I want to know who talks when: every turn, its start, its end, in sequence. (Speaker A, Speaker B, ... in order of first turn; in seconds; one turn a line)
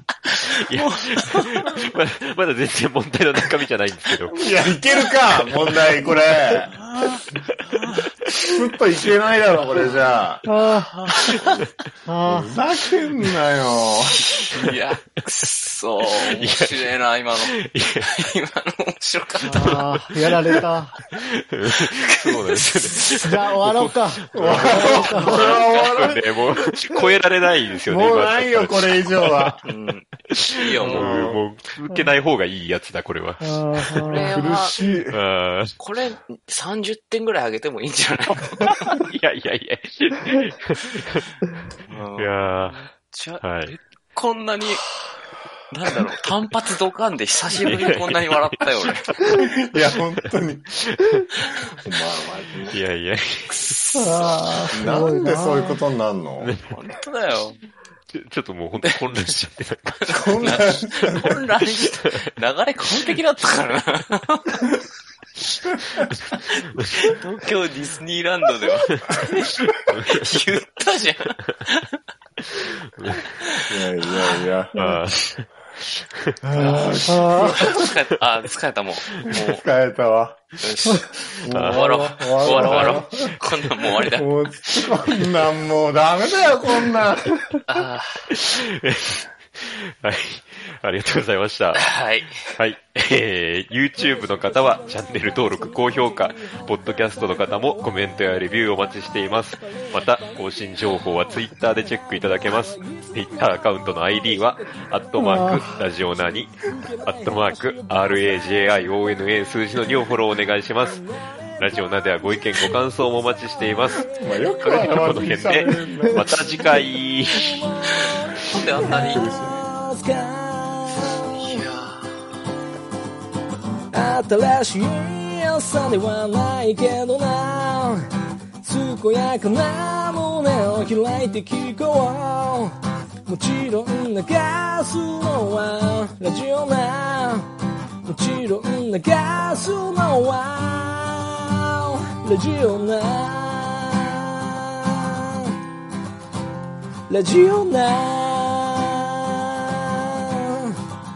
Speaker A: 0.3-1.8
Speaker B: 0.5-4.5
Speaker C: 4.3-6.8
Speaker A: 6.8-7.2
Speaker B: 7.5-8.0
Speaker A: 7.8-8.1
Speaker C: 8.3-10.4
Speaker D: 10.4-10.9
Speaker A: 10.7-11.7
Speaker D: 12.1-12.6
Speaker C: 12.3-14.3
Speaker A: 14.3-20.0
Speaker B: 16.1-18.2
Speaker D: 19.4-20.9
Speaker B: 19.6-19.9
Speaker B: 21.1-29.6
Speaker A: 21.6-23.3
Speaker D: 23.2-25.5
Speaker C: 24.3-26.2
Speaker A: 24.7-26.2
Speaker C: 27.9-29.6
Speaker A: 29.6-31.4
Speaker B: 30.3-34.3
Speaker C: 30.8-31.4
Speaker D: 33.4-34.3
Speaker A: 34.1-34.9
Speaker C: 34.1-35.2
Speaker B: 35.1-35.8
Speaker A: 35.8-39.0
Speaker B: 38.6-41.2
Speaker A: 41.9-45.0
Speaker B: 42.2-42.9
Speaker B: 43.4-43.8
Speaker A: 45.7-49.2
Speaker B: 47.5-48.9
Speaker C: 49.3-50.7
Speaker B: 50.9-51.2
Speaker C: 51.8-52.8
Speaker B: 52.7-54.6
Speaker D: 54.0-55.8
Speaker C: 54.7-56.5
Speaker B: 56.4-56.7
Speaker A: 56.7-57.6
Speaker B: 58.1-61.4
Speaker A: 58.8-59.4
Speaker A: 60.0-64.7
Speaker C: 60.1-61.4
Speaker A: 66.5-72.0
Speaker B: 69.9-70.2
Speaker B: 72.6-73.2
Speaker A: 73.1-74.5
Speaker C: 73.7-74.8
Speaker D: 74.7-75.0
Speaker B: 74.8-76.3
Speaker C: 76.4-77.9
Speaker A: 76.6-79.6
Speaker D: 77.0-77.7
Speaker C: 79.3-80.6
Speaker A: 80.6-84.3
Speaker C: 81.3-87.5
Speaker B: 81.5-83.1
Speaker A: 87.7-88.3
Speaker B: 88.3-91.9
Speaker A: 91.7-92.4
Speaker B: 92.5-114.0
Speaker D: 105.2-105.7
Speaker C: 113.9-116.9
Speaker B: 114.6-117.7
Speaker A: 117.8-119.3
Speaker C: 118.8-119.7
Speaker A: 121.0-122.1
Speaker D: 123.9-127.9
Speaker E: 124.1-127.8
Speaker E: 128.6-132.7
Speaker D: 128.7-132.7
Speaker E: 133.3-137.4
Speaker D: 133.3-135.5
Speaker D: 136.0-137.4
Speaker E: 138.1-144.2
Speaker D: 138.1-141.1
Speaker D: 142.3-143.6
Speaker D: 147.1-148.2
Speaker E: 147.2-150.2